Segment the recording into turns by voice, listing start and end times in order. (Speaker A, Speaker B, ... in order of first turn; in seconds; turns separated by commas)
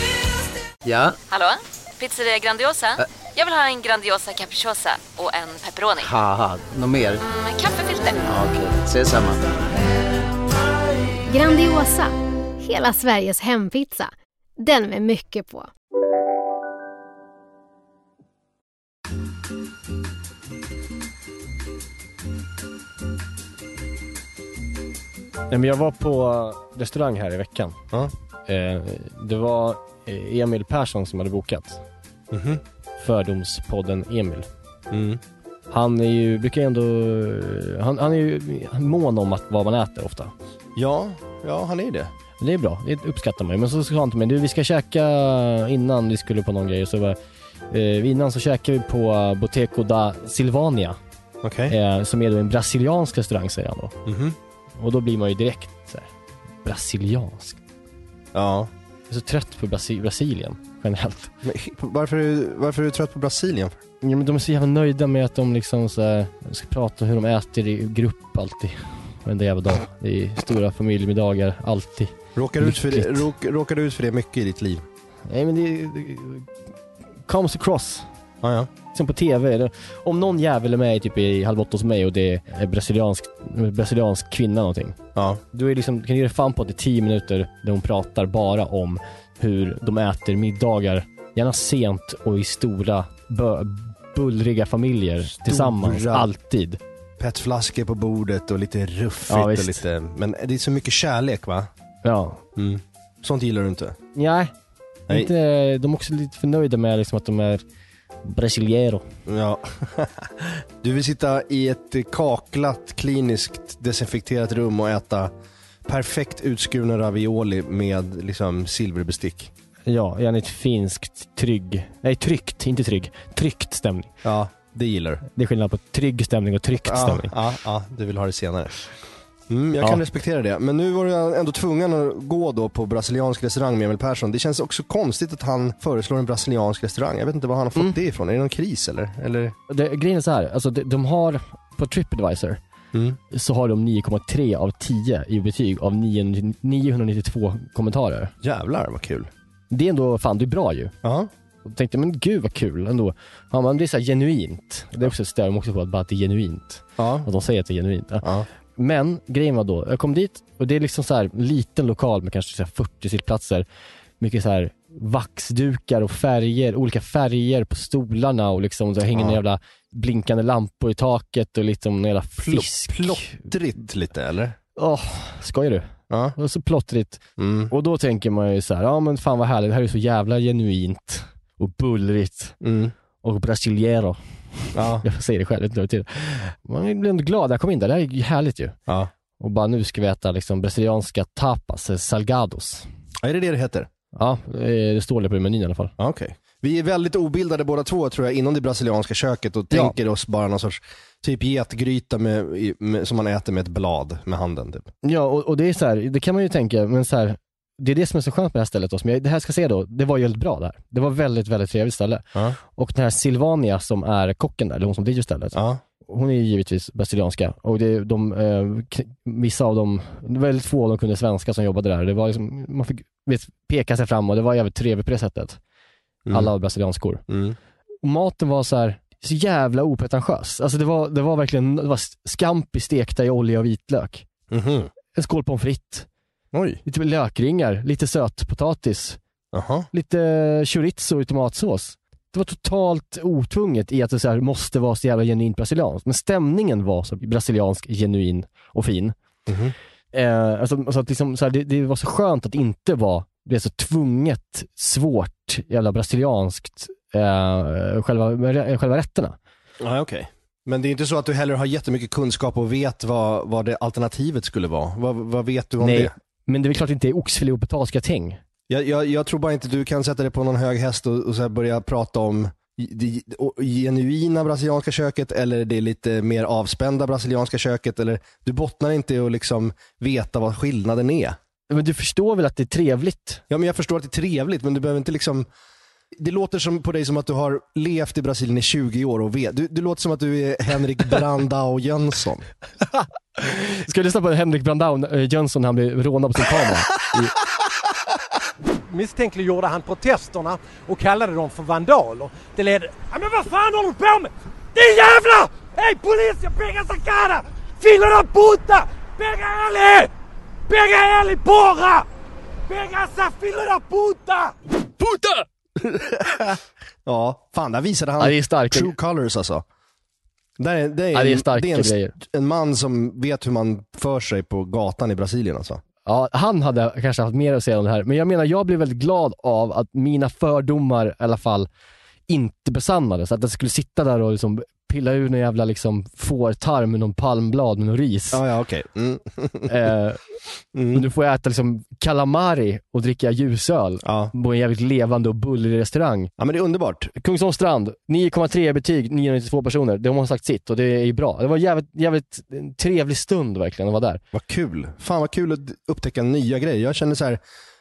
Speaker A: 0.8-1.2, Speaker B: 1.3-6.1, Speaker A: 6.0-7.2, Speaker B: 7.3-8.2, Speaker A: 8.2-9.5, Speaker C: 11.3-15.7, Speaker D: 25.5-27.8, Speaker D: 28.5-31.8, Speaker E: 32.3-32.6, Speaker D: 33.0-34.5, Speaker E: 34.9-35.2, Speaker D: 35.7-40.3, Speaker E: 40.8-42.1, Speaker D: 42.4-47.2, Speaker D: 47.7-51.0, Speaker E: 51.4-51.7, Speaker D: 51.7-54.0, Speaker E: 54.1-54.4, Speaker D: 54.8-56.1, Speaker D: 56.6-57.6, Speaker E: 58.3-58.7, Speaker D: 59.1-61.3, Speaker E: 61.4-63.8, Speaker D: 64.0-73.3, Speaker E: 72.4-74.8, Speaker D: 75.3-76.5, Speaker D: 77.3-78.0, Speaker E: 78.4-78.7, Speaker D: 78.9-85.0, Speaker E: 85.2-85.4, Speaker D: 85.5-96.8, Speaker E: 95.3-96.3, Speaker E: 97.2-101.7, Speaker D: 99.3-99.8, Speaker D: 102.0-102.4, Speaker E: 102.6-104.0, Speaker D: 104.2-104.5, Speaker D: 105.1-107.6, Speaker D: 108.2-109.0, Speaker E: 109.3-115.3, Speaker E: 115.9-119.5, Speaker D: 119.9-124.1, Speaker E: 124.2-125.2, Speaker D: 125.3-127.3, Speaker E: 126.8-128.8, Speaker E: 129.5-139.6, Speaker D: 139.7-142.6, Speaker E: 142.9-143.2, Speaker D: 143.3-148.3, Speaker E: 148.4-149.3, Speaker D: 149.7-150.9, Speaker E: 151.0-151.3, Speaker D: 151.7-163.7, Speaker E: 157.0-157.3, Speaker E: 158.2-158.5, Speaker D: 164.2-173.5, Speaker E: 169.1-169.4, Speaker E: 172.4-174.6, Speaker D: 174.8-182.6, Speaker E: 176.1-176.3, Speaker E: 177.4-177.7, Speaker E: 182.6-182.9, Speaker D: 183.2-184.2, Speaker D: 184.7-188.8, Speaker E: 184.8-185.1, Speaker D: 189.4-192.8, Speaker E: 193.2-193.9, Speaker D: 194.1-195.9, Speaker E: 196.0-204.9, Speaker D: 205.0-225.6, Speaker E: 215.5-215.8, Speaker E: 226.3-226.5, Speaker D: 226.3-227.2, Speaker E: 227.3-227.6, Speaker D: 228.0-234.2, Speaker E: 234.5-234.9, Speaker D: 235.1-236.1, Speaker E: 236.5-236.8, Speaker D: 236.9-239.2, Speaker E: 239.5-239.9, Speaker D: 239.9-249.1, Speaker E: 249.5-249.8, Speaker D: 250.1-259.4, Speaker E: 259.8-266.1, Speaker D: 265.8-268.4, Speaker E: 268.7-281.4, Speaker D: 281.7-283.4, Speaker E: 283.5-285.5, Speaker E: 286.2-292.4, Speaker D: 293.4-297.4, Speaker F: 298.9-310.1, Speaker F: 310.7-312.1, Speaker F: 312.7-314.6, Speaker D: 315.0-315.4, Speaker E: 315.8-319.6, Speaker D: 318.2-318.9, Speaker E: 320.6-325.8, Speaker D: 321.1-322.1, Speaker D: 326.1-331.7, Speaker D: 332.3-338.4, Speaker E: 338.3-339.9, Speaker D: 339.7-340.2, Speaker E: 340.7-341.1, Speaker D: 340.9-346.3, Speaker E: 344.0-344.3, Speaker E: 346.4-347.1, Speaker D: 347.2-354.2, Speaker E: 354.3-357.4